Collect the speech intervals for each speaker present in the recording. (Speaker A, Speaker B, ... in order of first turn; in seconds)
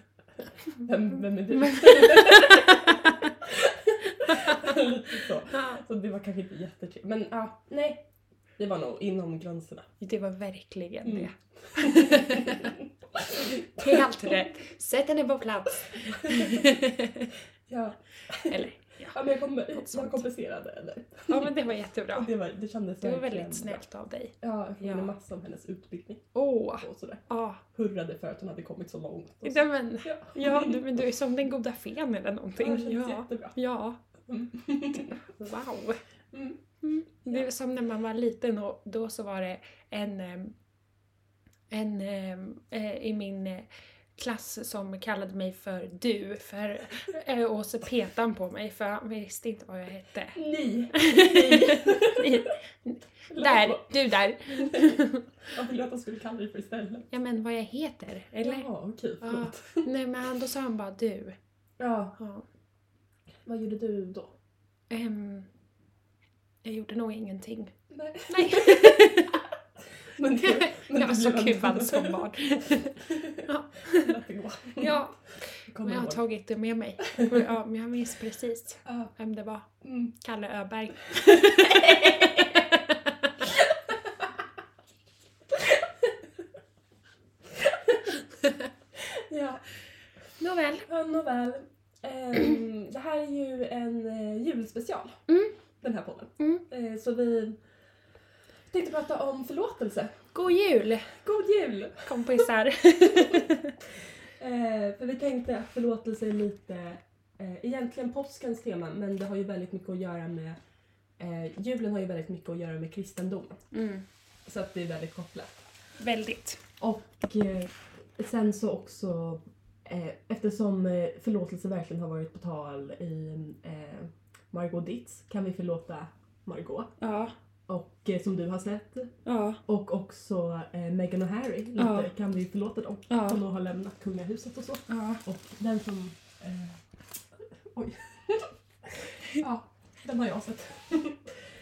Speaker A: 0.4-8.1, 8.6-9.9, 11.0-14.4, 16.1-16.8, 17.7-23.8, 24.4-26.3, 26.8-30.8, 32.6-33.5, 34.3-35.2, 36.3-36.6, 50.3-52.4, 53.3-55.0, 55.5-57.1, 58.4-59.9, 61.8-62.1, 63.4-64.3, 67.9-69.1, 70.1-76.2, 77.2-77.4, 78.8-79.1, 79.8-80.1, 81.6-82.6, 83.5-84.4, 85.5-86.1, 87.5-88.1, 89.1-89.6, 90.8-95.2, 95.8-97.6, 98.7-100.2, 101.2-102.4, 103.0-110.6, 111.2-113.6, 114.5-115.7, 116.8-126.9, 127.7-129.1, 129.7-136.8, 137.7-141.3
Speaker B: 1.6-3.3, 4.2-4.8, 5.5-5.8, 10.0-12.7, 13.8-17.3, 18.5-19.2, 19.7-20.2, 21.3-22.3, 23.0-25.1, 26.3-27.6, 29.4-34.0, 35.2-36.0, 36.8-40.5, 41.7-50.4, 50.9-55.2, 57.1-58.7, 59.2-61.4, 62.2-62.4, 64.9-65.5, 66.6-67.7, 68.3-69.4, 70.4-74.1, 74.8-83.3, 90.4-90.9, 95.3-95.5, 96.4-96.6, 100.3-101.2, 102.0-103.8, 113.7-114.0, 116.0-116.6, 127.0-127.3, 129.2-129.6, 131.8-132.1, 133.1-133.4, 134.9-135.2